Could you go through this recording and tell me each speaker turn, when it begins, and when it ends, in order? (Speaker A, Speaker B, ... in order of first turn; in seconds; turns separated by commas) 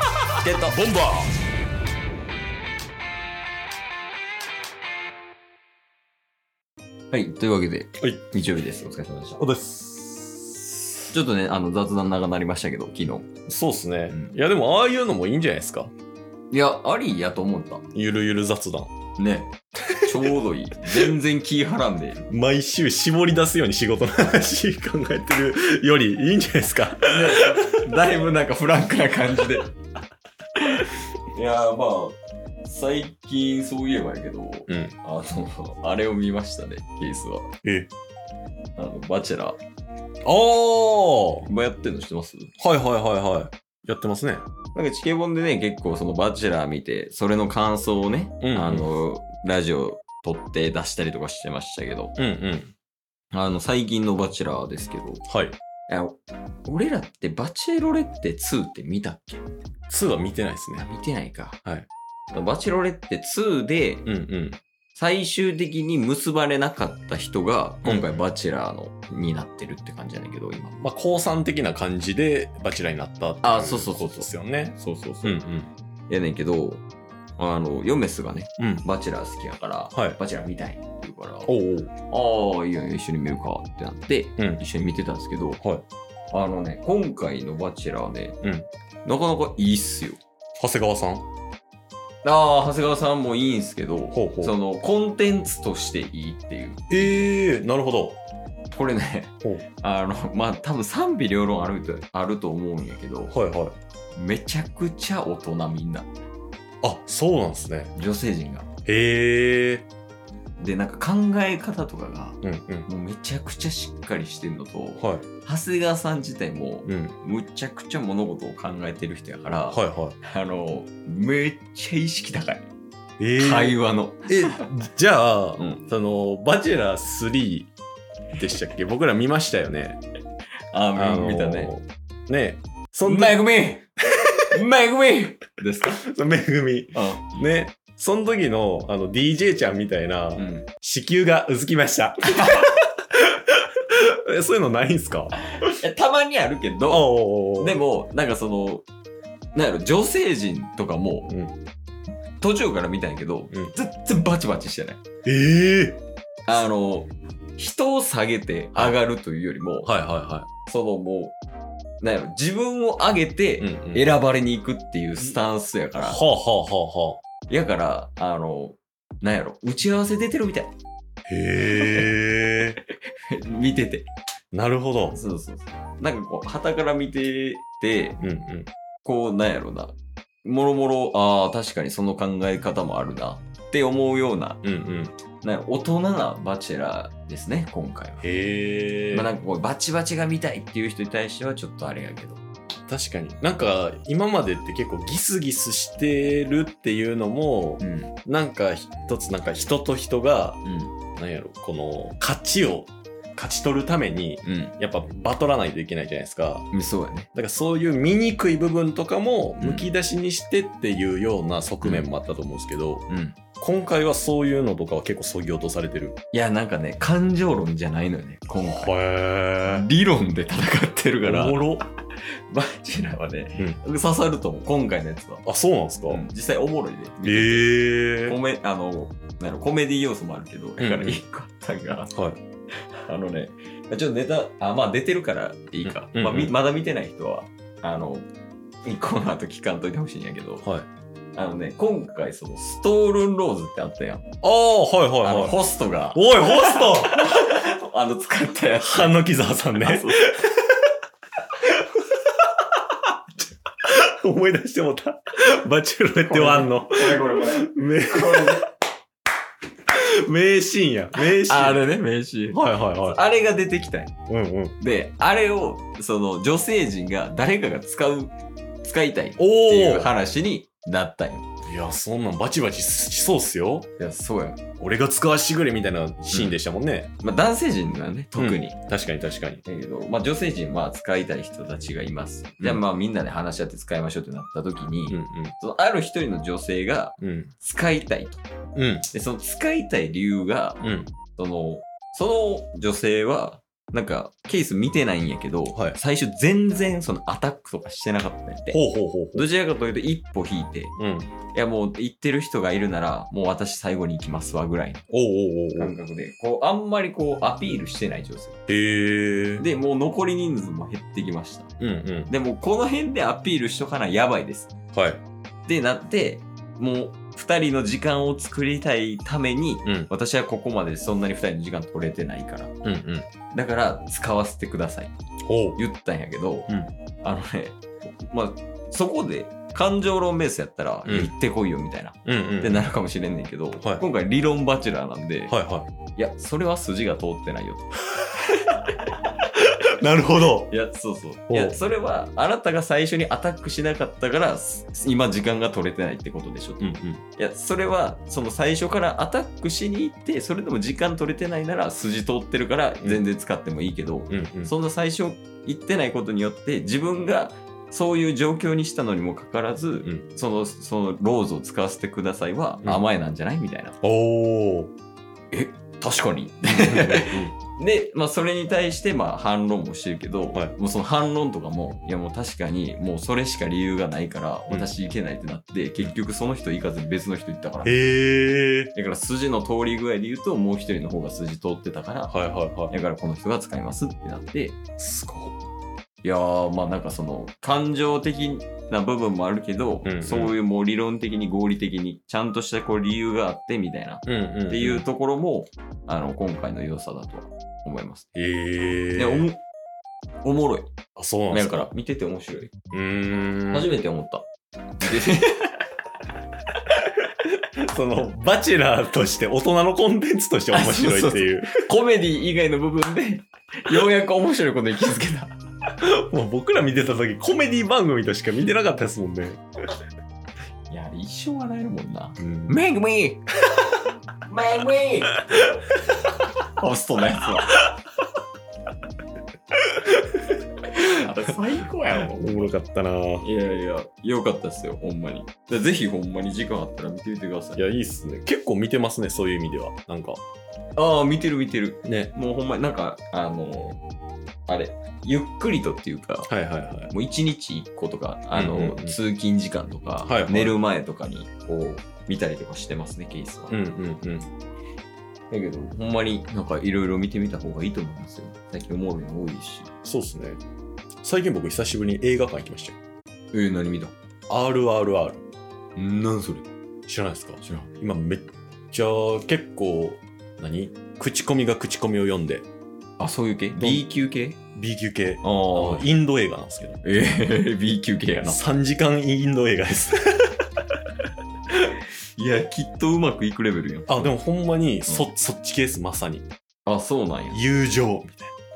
Speaker A: 0.4-0.8, Speaker B: 0.7-1.3, Speaker A: 7.1-9.4, Speaker B: 9.4-10.9, Speaker A: 11.1-13.3, Speaker B: 13.5-15.9, Speaker A: 14.1-14.3, Speaker A: 16.5-17.8, Speaker B: 17.9-18.9, Speaker A: 19.2-22.2, Speaker B: 20.9-21.1, Speaker B: 22.3-27.8, Speaker A: 27.1-29.7, Speaker A: 30.6-37.5, Speaker B: 34.7-35.0, Speaker B: 37.6-37.9, Speaker A: 38.8-39.6, Speaker B: 40.2-41.5, Speaker A: 41.5-42.5, Speaker B: 42.6-44.4, Speaker A: 44.7-52.1, Speaker B: 48.4-48.9, Speaker B: 52.2-52.7, Speaker A: 53.3-55.2, Speaker B: 55.3-55.6, Speaker A: 55.9-59.4, Speaker B: 59.9-60.9, Speaker A: 60.8-61.6, Speaker A: 62.3-64.1, Speaker B: 64.1-64.6, Speaker A: 65.0-70.8, Speaker B: 67.8-68.2, Speaker B: 70.8-75.7, Speaker A: 73.4-75.4, Speaker A: 76.1-76.8, Speaker A: 77.4-81.5, Speaker B: 78.6-78.8, Speaker B: 79.9-80.2, Speaker B: 81.5-81.9, Speaker A: 82.1-85.6, Speaker A: 86.3-88.4, Speaker B: 88.4-88.7, Speaker A: 89.0-90.2, Speaker B: 90.6-91.2, Speaker A: 92.2-97.3, Speaker B: 94.1-94.5, Speaker B: 96.9-98.2, Speaker A: 98.7-103.3, Speaker B: 103.3-103.8, Speaker A: 104.2-106.1, Speaker B: 106.8-107.9, Speaker A: 107.9-108.7, Speaker B: 108.9-109.9, Speaker A: 110.6-122.7, Speaker B: 112.4-112.9, Speaker B: 115.0-115.3, Speaker B: 116.9-117.2, Speaker B: 119.7-120.2, Speaker B: 123.2-127.7, Speaker A: 123.4-124.7, Speaker B: 128.4-130.0, Speaker A: 130.7-131.7, Speaker B: 130.9-133.4, Speaker A: 133.1-133.9, Speaker B: 134.2-134.5, Speaker A: 134.5-136.0, Speaker B: 136.0-145.8, Speaker A: 136.9-137.4, Speaker A: 140.4-140.7, Speaker A: 142.3-142.7, Speaker A: 145.5-148.8, Speaker B: 146.9-147.8, Speaker A: 149.6-151.3, Speaker B: 151.3-151.5, Speaker A: 152.4-155.0, Speaker B: 155.3-156.0, Speaker A: 156.5-159.9, Speaker B: 159.8-160.5, Speaker A: 160.7-161.3, Speaker A: 162.0-166.2, Speaker B: 163.6-164.1, Speaker B: 166.0-167.2, Speaker A: 167.5-170.7, Speaker B: 171.3-172.8, Speaker A: 171.6-172.1, Speaker A: 172.9-174.1, Speaker B: 174.5-175.2, Speaker A: 175.1-178.2, Speaker B: 178.2-178.7, Speaker A: 179.0-184.6, Speaker B: 184.6-185.1, Speaker A: 185.4-188.2, Speaker B: 188.2-189.3, Speaker A: 189.1-192.4, Speaker B: 192.9-200.6, Speaker A: 197.8-198.1, Speaker A: 200.6-200.9, Speaker B: 201.2-206.7, Speaker A: 204.4-204.8, Speaker A: 206.7-207.3, Speaker B: 207.3-213.1, Speaker A: 209.6-209.9, Speaker A: 211.8-212.1, Speaker A: 213.1-213.4, Speaker B: 213.6-216.2, Speaker A: 216.3-218.9, Speaker B: 218.6-219.9, Speaker A: 219.7-225.4, Speaker B: 221.2-221.8, Speaker B: 225.4-226.2, Speaker A: 226.1-227.7, Speaker B: 227.2-228.4, Speaker A: 228.2-232.1, Speaker B: 230.8-231.2, Speaker B: 232.1-232.4, Speaker A: 233.1-238.3, Speaker B: 235.8-236.6, Speaker A: 238.8-240.7, Speaker A: 241.4-244.2, Speaker B: 244.4-245.6, Speaker A: 245.2-249.2, Speaker B: 246.1-247.5, Speaker B: 248.8-250.6, Speaker A: 249.8-250.3, Speaker B: 253.8-258.7, Speaker A: 256.2-258.7, Speaker B: 259.9-261.8, Speaker A: 261.1-264.1, Speaker B: 262.5-263.2, Speaker B: 264.3-264.8, Speaker A: 264.8-271.5, Speaker B: 269.4-270.1, Speaker B: 271.6-273.9, Speaker A: 274.0-274.6, Speaker B: 274.8-277.1, Speaker A: 276.3-276.6, Speaker A: 277.2-278.8, Speaker B: 278.4-279.6, Speaker A: 279.6-288.4, Speaker B: 285.1-285.6, Speaker B: 287.2-287.5, Speaker B: 288.8-289.1, Speaker A: 289.1-290.8, Speaker B: 290.8-291.1, Speaker A: 291.3-298.8, Speaker B: 298.7-299.5, Speaker A: 299.3-300.9, Speaker B: 301.0-301.3, Speaker A: 301.5-305.0, Speaker B: 305.1-305.9, Speaker A: 305.8-308.6, Speaker B: 308.7-309.7, Speaker A: 309.6-311.7, Speaker B: 311.8-312.3, Speaker A: 312.3-314.7, Speaker B: 314.9-315.2, Speaker A: 315.7-322.7, Speaker B: 322.8-323.3, Speaker A: 323.5-325.1, Speaker B: 325.5-325.8, Speaker A: 325.8-326.7, Speaker A: 327.2-335.6, Speaker B: 331.1-331.3, Speaker B: 332.2-332.9, Speaker B: 335.5-335.9, Speaker A: 336.1-337.9, Speaker A: 338.5-338.8, Speaker B: 339.6-340.7, Speaker A: 340.7-364.0, Speaker B: 341.5-341.8, Speaker B: 346.8-347.2, Speaker B: 354.3-354.7, Speaker B: 364.0-364.9, Speaker A: 365.5-378.0, Speaker B: 366.6-367.5, Speaker B: 377.8-378.9, Speaker A: 378.9-382.3, Speaker B: 382.3-382.9, Speaker A: 382.9-384.8, Speaker B: 385.0-385.6, Speaker A: 386.2-398.3, Speaker B: 390.1-390.6, Speaker B: 394.3-395.1, Speaker B: 398.4-399.5, Speaker A: 399.2-399.6, Speaker A: 400.4-400.9, Speaker B: 401.2-401.9, Speaker A: 401.5-402.7, Speaker B: 402.9-403.9, Speaker A: 403.7-404.4, Speaker A: 405.0-405.8, Speaker B: 407.0-411.7, Speaker A: 410.7-415.5, Speaker B: 416.0-419.6, Speaker A: 420.9-423.4, Speaker B: 422.4-422.8, Speaker A: 424.5-425.7, Speaker A: 426.8-427.8, Speaker B: 430.0-430.4, Speaker A: 430.9-432.8, Speaker B: 432.3-433.5, Speaker A: 433.4-437.8, Speaker B: 437.8-440.4, Speaker A: 441.0-444.0, Speaker B: 442.0-442.3, Speaker A: 444.7-446.5, Speaker B: 446.5-447.1, Speaker A: 447.1-453.8, Speaker B: 448.5-449.2, Speaker B: 450.2-450.8, Speaker B: 453.7-454.5, Speaker A: 455.5-459.9, Speaker B: 460.1-460.6, Speaker B: 461.2-463.0, Speaker A: 463.5-464.1, Speaker B: 464.5-465.4, Speaker A: 466.0-466.7, Speaker B: 467.1-472.6, Speaker A: 473.2-474.6, Speaker B: 473.8-474.0, Speaker B: 474.8-477.0, Speaker A: 475.4-476.1, Speaker A: 477.0-478.6, Speaker B: 478.4-480.7, Speaker A: 481.7-484.3, Speaker B: 484.1-486.4, Speaker A: 486.9-487.6, Speaker B: 487.5-488.5